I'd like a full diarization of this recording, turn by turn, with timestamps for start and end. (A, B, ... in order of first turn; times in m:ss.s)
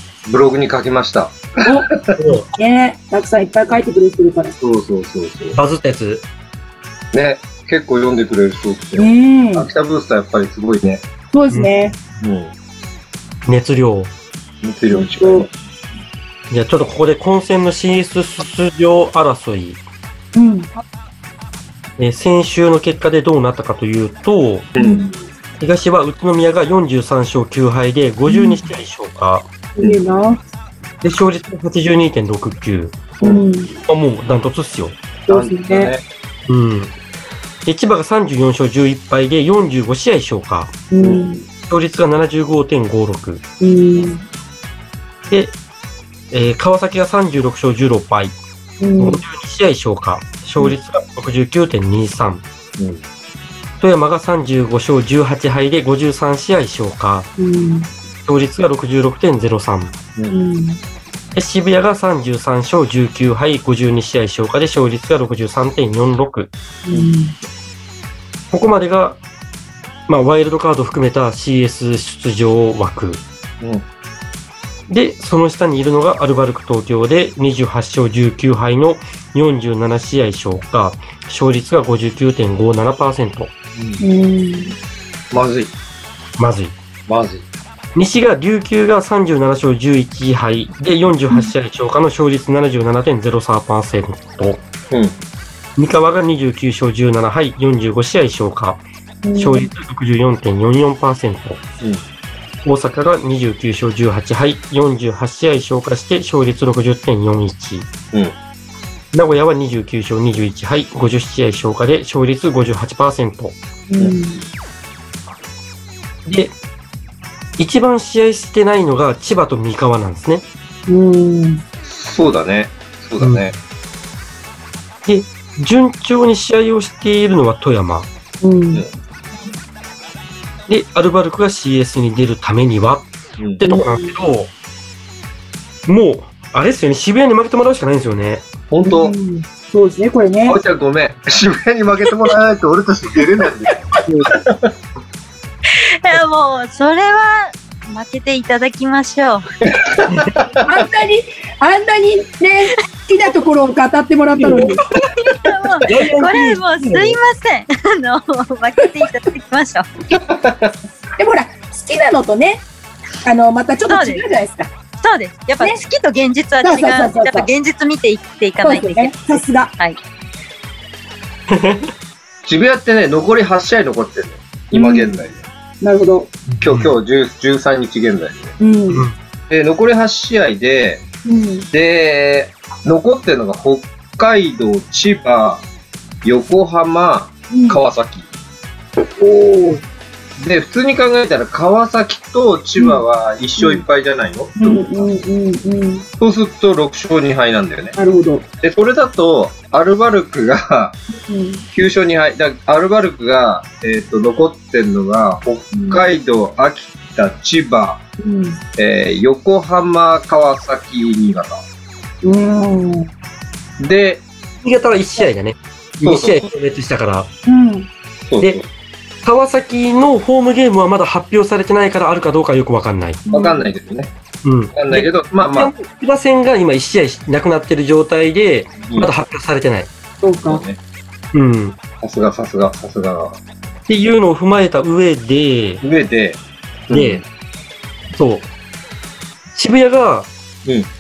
0:00.3-0:02.2 A
0:01.6-0:01.9 B
0:02.2-0:02.5 C
0:02.6-0:04.6 B
0:04.6-0:05.6 A
0:05.5-0:06.2 C
0:07.1-0:11.0 A
0:09.0-0:09.7 B
0:11.3-0:12.0 B
0:12.2-0:12.5 A
0:13.5-0:14.1 C
0:14.6-0:15.5 A
0:14.9-0:15.5 B
0:16.5-0:19.8 C
0:20.4-0:20.7 B
0:22.0-0:24.7 C
0:24.7-0:25.1 A
0:24.8-0:25.1 B
0:25.6-0:29.5 C
0:28.3-0:28.6 B
0:29.8-0:30.4 B
0:31.0-0:33.0 C
0:33.2-0:33.5 A
0:33.2-0:33.7 B
0:33.9-0:35.0 C
0:35.3-0:35.9 B
0:35.3-0:36.0 A
0:36.5-0:37.0 C
0:37.6-0:40.8 C
0:40.9-0:41.5 B
0:41.7-0:43.4 C
0:43.6-0:44.2 B
0:45.3-0:45.5 C
0:46.3-0:48.4 C
0:48.8-0:49.2 B
0:49.0-0:52.4 C
0:53.8-0:57.3 C
0:57.4-0:57.9 B
0:58.2-1:00.0 C
1:00.3-1:00.8 B
1:01.3-1:06.5 C
1:06.9-1:07.4 B
1:08.5-1:09.2 C
1:10.1-1:13.2 C
1:14.9-1:23.5 C
1:23.8-1:24.0 A
1:24.0-1:24.8 B
1:25.3-1:25.7 A
1:26.4-1:26.7 C
1:27.1-1:27.4 A
1:28.0-1:34.6 C
1:34.9-1:35.2 A
1:35.8-1:38.8 C
1:39.2-1:39.7 B
1:39.4-1:41.6 C
1:42.6-1:47.9 C
1:49.1-1:53.6 C
1:53.9-1:54.4 B
1:56.2-1:56.6 C
1:57.6-2:00.4 C
2:00.9-2:01.6 B
2:01.8-2:03.5 A
2:03.2-2:03.5 C
2:05.1-2:08.1 C
2:08.4-2:08.8 B
2:10.7-2:14.5 C
2:13.7-2:14.2 B
2:15.9-2:18.5 C
2:18.7-2:19.2 A
2:18.8-2:20.6 B
2:20.4-2:24.7 A
2:26.0-2:29.4 D
2:29.7-2:30.7 A
2:30.6-2:34.8 B
2:34.4-2:34.8 C
2:35.3-2:39.9 D
2:35.8-2:37.2 C
2:40.1-2:40.8 A
2:41.2-2:42.7 B
2:43.2-2:44.7 B
2:43.9-2:44.3 D
2:45.0-2:50.0 D
2:46.6-2:47.5 B
2:48.6-2:49.7 B
2:51.5-2:51.9 C
2:52.4-2:55.4 A
2:54.7-2:55.2 B
2:55.8-2:56.3 B
2:56.5-2:57.0 C
2:56.6-2:58.6 A
2:58.6-2:59.1 B
2:58.9-2:59.2 C
2:59.5-3:01.0 A
3:01.2-3:01.7 B
3:01.7-3:05.6 A
3:06.2-3:08.3 A
3:07.5-3:07.8 B
3:09.2-3:09.8 B
3:10.4-3:14.8 A
3:12.8-3:13.0 B
3:13.6-3:13.8 B
3:14.6-3:16.1 B
3:16.2-3:18.0 A
3:18.0-3:18.4 B
3:18.6-3:21.0 A
3:21.3-3:21.7 B
3:21.7-3:28.0 A
3:25.7-3:26.0 B
3:28.2-3:28.6 B
3:28.8-3:31.6 A
3:32.2-3:33.1 B
3:33.8-3:34.2 A
3:34.6-3:37.3 C
3:36.0-3:36.4 A
3:37.5-3:37.9 B
3:38.3-3:38.7 A
3:39.2-3:43.2 C
3:43.3-3:43.7 B
3:43.3-3:44.1 A
3:44.4-3:49.9 C
3:44.7-3:45.7 A
3:50.2-3:50.6 B
3:50.4-3:50.8 A
3:51.3-3:51.8 C
3:52.0-3:53.4 A
3:53.9-3:55.8 C
3:55.8-3:57.2 A
3:56.9-3:57.2 C
3:58.1-3:58.5 C
3:59.6-4:00.3 C